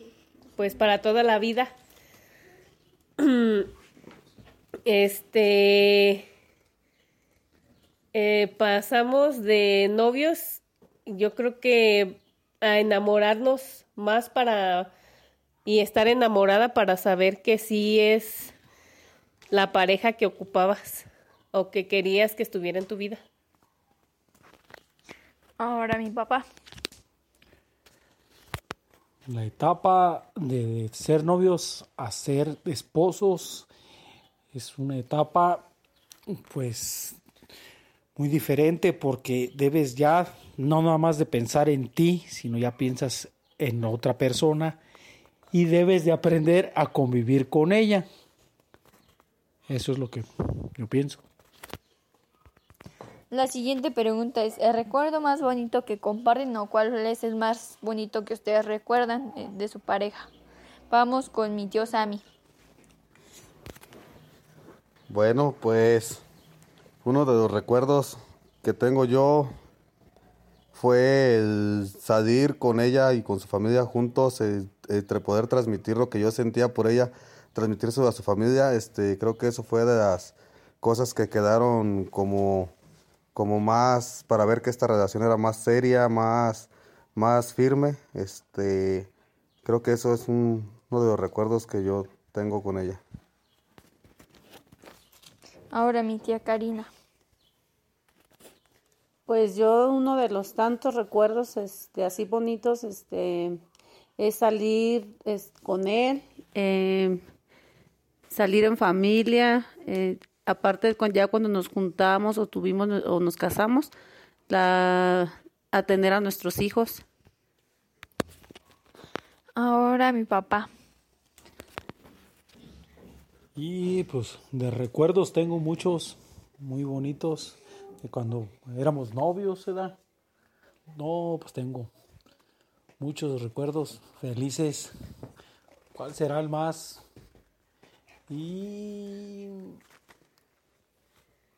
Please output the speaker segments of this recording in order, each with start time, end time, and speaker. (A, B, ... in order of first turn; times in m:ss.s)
0:00.6-0:01.7 A
0:03.2-0:03.7 A
0:04.8-0:06.2 A
0:08.1-0:14.9 A
0:15.6-0:18.5 A
0:19.5-0:23.2 A
0:25.6-0:26.4 B
0:29.3-0:33.7 C
0:34.5-0:35.6 C
0:36.3-0:37.2 C
0:38.2-0:44.8 C
0:45.5-0:48.0 C
0:49.7-0:51.2 C
0:53.3-1:00.3 B
1:00.9-1:02.2 B
1:05.1-1:06.2 D
1:07.0-1:09.5 D
1:10.7-1:22.7 D
1:23.3-1:29.1 D
1:29.6-1:33.0 D
1:35.7-1:36.9 B
1:39.3-1:43.6 E
1:44.2-1:47.2 E
1:48.3-1:53.9 E
1:54.5-1:57.0 E
1:59.6-2:00.7 B
2:03.6-2:10.0 C
2:10.9-2:11.9 C
2:13.0-2:14.9 C
2:15.9-2:17.0 C
2:18.3-2:19.8 C